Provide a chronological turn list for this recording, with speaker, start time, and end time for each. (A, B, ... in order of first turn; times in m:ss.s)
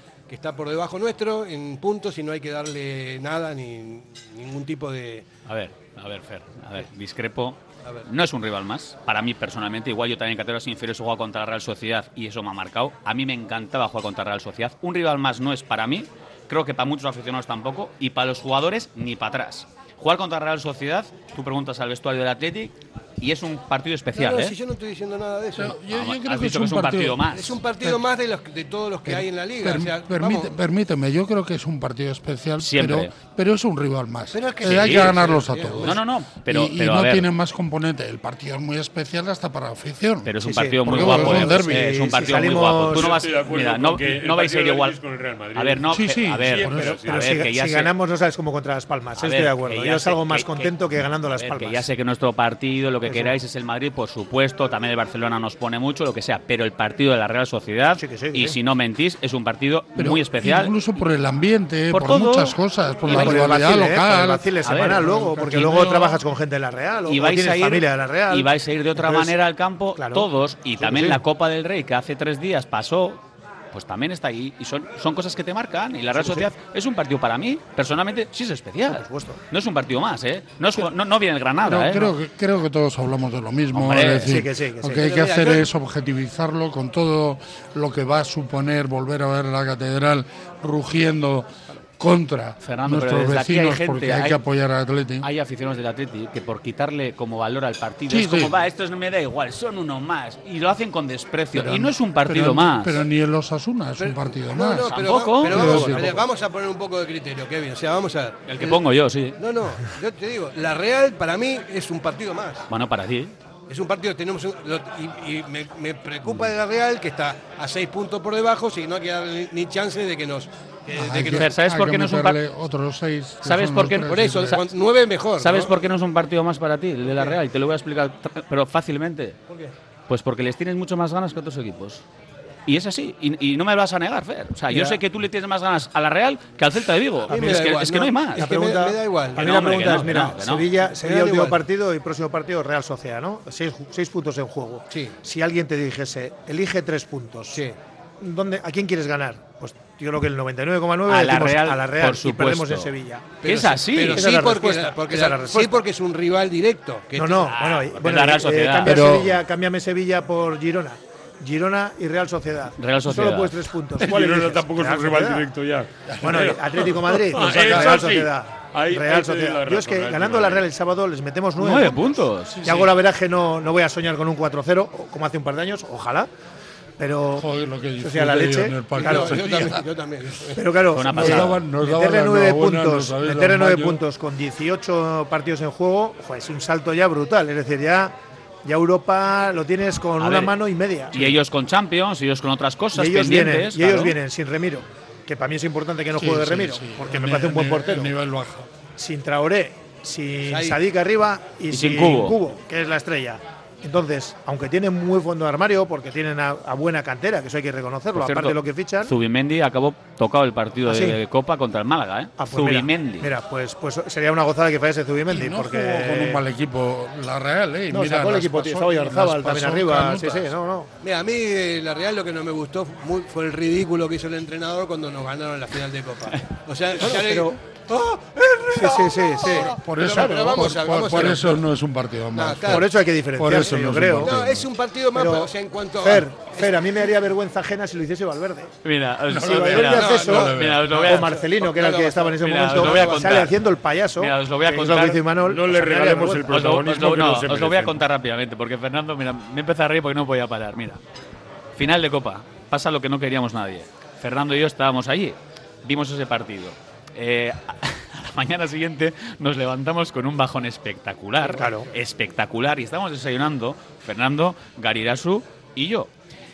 0:00.3-0:05.2 A
0:05.5-0:24.6 B
0:24.1-0:25.8 A
0:25.5-0:27.3 C
0:25.9-0:27.6 B
0:27.3-0:30.6 A
0:29.0-0:40.3 C
0:32.6-0:33.1 B
0:34.3-0:36.0 A
0:34.7-0:35.1 B
0:35.8-0:37.3 B
0:40.2-0:45.0 B
0:40.4-0:43.2 D
0:40.8-0:41.9 C
0:42.5-0:47.5 E
0:45.6-0:47.9 B
0:45.9-0:47.0 C
0:46.8-0:51.9 D
0:49.2-0:50.7 B
0:51.4-1:00.7 B
0:53.0-0:53.3 D
0:58.0-0:58.6 D
1:00.0-1:04.4 C
1:01.9-1:03.4 B
1:03.0-1:09.4 D
1:04.6-1:06.2 B
1:07.1-1:13.2 B
1:10.0-1:11.2 D
1:13.7-1:22.1 B
1:16.1-1:16.5 D
1:18.8-1:19.4 D
1:21.6-1:35.3 C
1:23.7-1:24.4 B
1:24.2-1:25.1 D
1:25.0-1:25.7 A
1:32.6-1:34.4 B
1:35.2-1:43.0 B
1:38.1-1:38.5 C
1:41.5-1:46.3 C
1:44.0-1:48.8 A
1:44.9-1:45.9 B
1:48.5-1:49.4 B
1:49.4-1:52.7 A
1:52.7-1:53.3 B
1:53.7-2:01.5 A
2:00.9-2:04.6 C
2:01.3-2:02.4 B
2:03.4-2:04.7 B
2:04.1-2:05.8 A
2:05.4-2:09.4 B
2:09.5-2:09.7 A
2:10.1-2:12.0 B
2:12.7-2:18.5 B
2:14.7-2:15.0 A
2:17.3-2:20.4 A
2:17.3-2:17.8 D
2:18.4-2:27.6 D
2:19.3-2:20.6 B
2:20.9-2:21.6 A
2:24.9-2:25.2 A
2:28.2-2:33.4 D
2:31.1-2:32.9 B
2:33.4-2:37.5 A
2:33.4-2:34.3 B
2:34.1-2:35.9 D
2:37.2-2:45.5 D
2:37.3-2:39.0 B
2:38.8-2:39.4 C
2:42.8-2:43.6 B
2:44.0-2:50.7 E
2:46.1-2:46.5 C
2:46.2-2:56.3 D
2:47.5-2:48.0 C
2:51.6-2:52.9 B
2:52.5-2:52.9 C
2:57.0-2:57.5 D
2:57.4-2:59.9 C
2:58.0-2:59.7 D
2:58.9-3:00.7 A
3:00.6-3:08.1 D
3:00.9-3:01.6 B
3:01.1-3:04.0 C
3:08.6-3:11.4 D
3:10.2-3:10.6 B
3:11.1-3:14.2 B
3:12.9-3:18.1 D
3:16.2-3:18.7 C
3:19.0-3:29.1 D
3:20.4-3:20.8 A
3:21.7-3:22.4 B
3:28.1-3:33.3 B
3:30.8-3:31.2 D
3:32.4-3:36.4 D
3:35.3-3:40.6 C
3:37.9-3:40.9 D
3:41.0-3:51.6 A
3:47.1-3:47.6 D
3:48.8-3:51.3 D
3:49.4-3:54.7 C
3:52.3-3:52.9 A
3:52.6-3:54.4 D
3:54.2-3:56.9 A
3:55.1-3:58.7 D
3:58.8-4:01.4 B
3:59.3-4:00.9 C
3:59.4-4:06.5 D
4:00.0-4:03.5 A
4:02.4-4:03.6 B
4:04.2-4:05.2 B
4:05.4-4:08.0 E
4:06.5-4:11.0 B
4:11.8-4:26.1 B
4:21.5-4:21.9 D